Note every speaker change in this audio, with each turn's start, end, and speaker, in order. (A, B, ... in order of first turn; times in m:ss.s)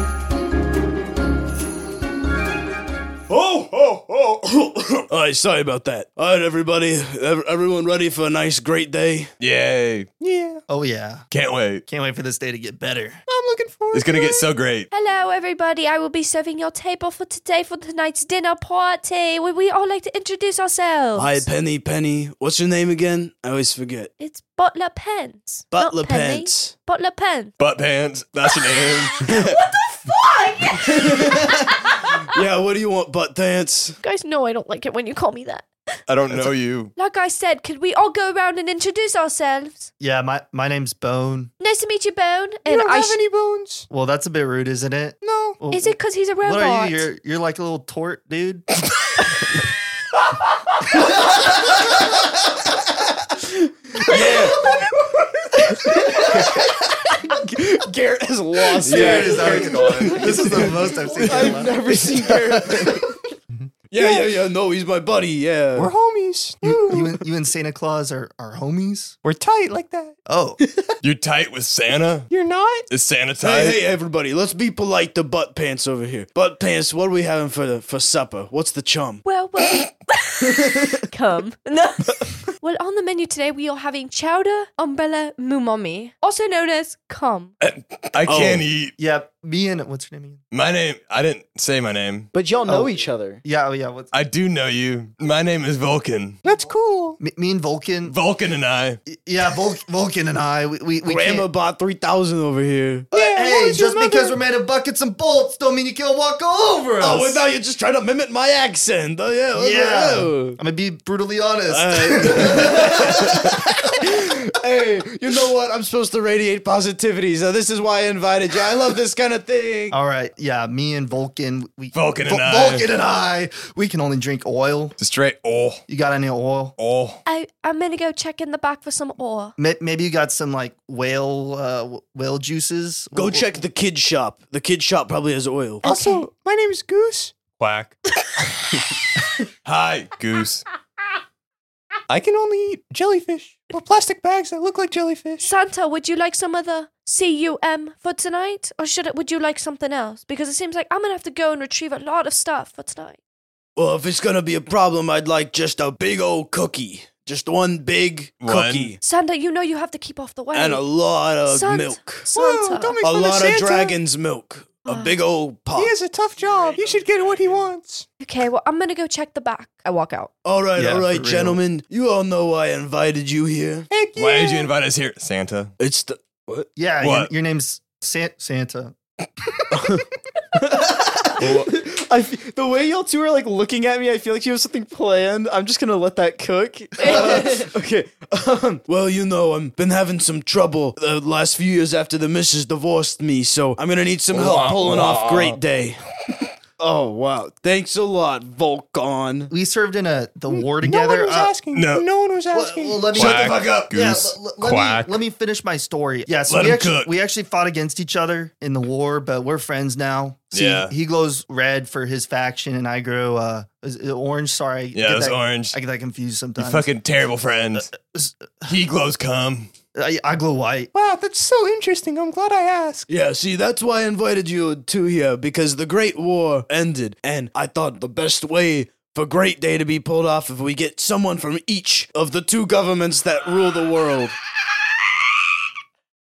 0:03.3-0:09.3 A
0:09.4-0:10.1 B
0:10.2-0:10.6 C
0:10.7-0:11.3 D
0:11.3-0:11.8 B
0:11.8-0:13.2 D
0:13.3-0:14.2 C
0:13.9-0:14.9 B
0:14.9-0:21.5 E
0:21.1-0:24.1 A
0:24.2-0:27.5 E
0:25.7-0:26.1 F
0:25.7-0:26.7 A
0:27.6-0:29.2 B
0:28.4-0:32.3 E
0:29.3-0:29.5 A
0:32.3-0:34.0 A
0:34.0-0:35.7 E
0:36.1-0:36.9 B
0:36.9-0:39.9 E
0:40.0-0:41.5 D
0:41.6-0:43.2 E
0:42.6-0:43.8 C
0:43.9-0:48.7 D
0:45.2-0:45.6 C
0:45.7-0:47.1 E
0:54.1-0:54.7 A
0:55.7-0:56.7 F
0:57.2-1:00.7 F
0:58.0-0:59.6 A
0:58.9-1:02.0 D
0:59.0-1:00.2 B
0:59.1-1:00.7 C
1:01.2-1:02.9 F
1:01.2-1:02.4 A
1:03.9-1:05.9 A
1:04.0-1:04.3 C
1:05.8-1:07.2 C
1:06.6-1:09.2 D
1:09.2-1:10.1 C
1:10.3-1:10.6 D
1:11.0-1:12.3 B
1:12.3-1:12.9 C
1:12.9-1:13.8 B
1:13.4-1:19.2 A
1:19.2-1:27.5 E
1:27.6-1:29.0 B
1:28.2-1:28.6 A
1:29.0-1:30.4 D
1:30.5-1:32.3 B
1:32.3-1:33.4 F
1:32.6-1:34.1 D
1:34.1-1:36.4 B
1:36.4-1:37.2 C
1:37.2-1:38.2 D
1:38.0-1:39.0 B
1:39.1-1:41.5 D
1:41.0-1:43.1 A
1:43.1-1:44.4 C
1:43.1-1:47.4 D
1:47.0-1:50.6 A
1:49.5-1:54.0 D
1:51.7-2:00.0 A
1:59.9-2:05.0 D
2:01.9-2:02.9 B
2:05.0-2:05.8 B
2:05.9-2:06.7 D
2:06.8-2:07.2 B
2:07.2-2:09.5 E
2:09.6-2:13.6 D
2:13.1-2:15.8 A
2:15.8-2:18.0 C
2:15.8-2:16.2 E
2:19.6-2:20.6 B
2:22.1-2:25.5 C
2:25.4-2:33.2 E
2:33.8-2:39.0 A
2:38.4-2:39.0 B
2:39.0-2:40.9 E
2:40.5-2:42.3 A
2:41.4-2:43.0 E
2:42.3-2:44.0 C
2:43.0-2:45.9 A
2:44.8-2:45.2 E
2:45.7-2:48.0 C
2:48.2-2:50.3 E
2:50.4-2:53.9 A
2:50.7-2:51.6 D
2:53.9-2:54.7 C
2:54.1-2:55.7 B
2:55.8-2:56.7 A
2:56.8-3:00.0 D
2:57.0-2:57.3 B
3:01.4-3:08.8 F
3:07.0-3:07.7 E
3:07.4-3:07.7 A
3:08.8-3:16.0 A
3:14.3-3:15.6 B
3:17.0-3:19.5 A
3:19.5-3:21.5 D
3:20.5-3:23.8 C
3:21.7-3:22.0 B
3:22.5-3:36.9 D
3:23.1-3:24.4 B
3:24.5-3:25.2 C
3:26.5-3:27.1 B
3:30.5-3:30.9 B
3:34.9-3:35.8 B
3:36.6-3:37.9 B
3:37.8-3:38.7 D
3:38.6-3:39.7 B
3:39.9-3:40.9 D
3:40.9-3:43.1 C
3:43.1-3:54.3 A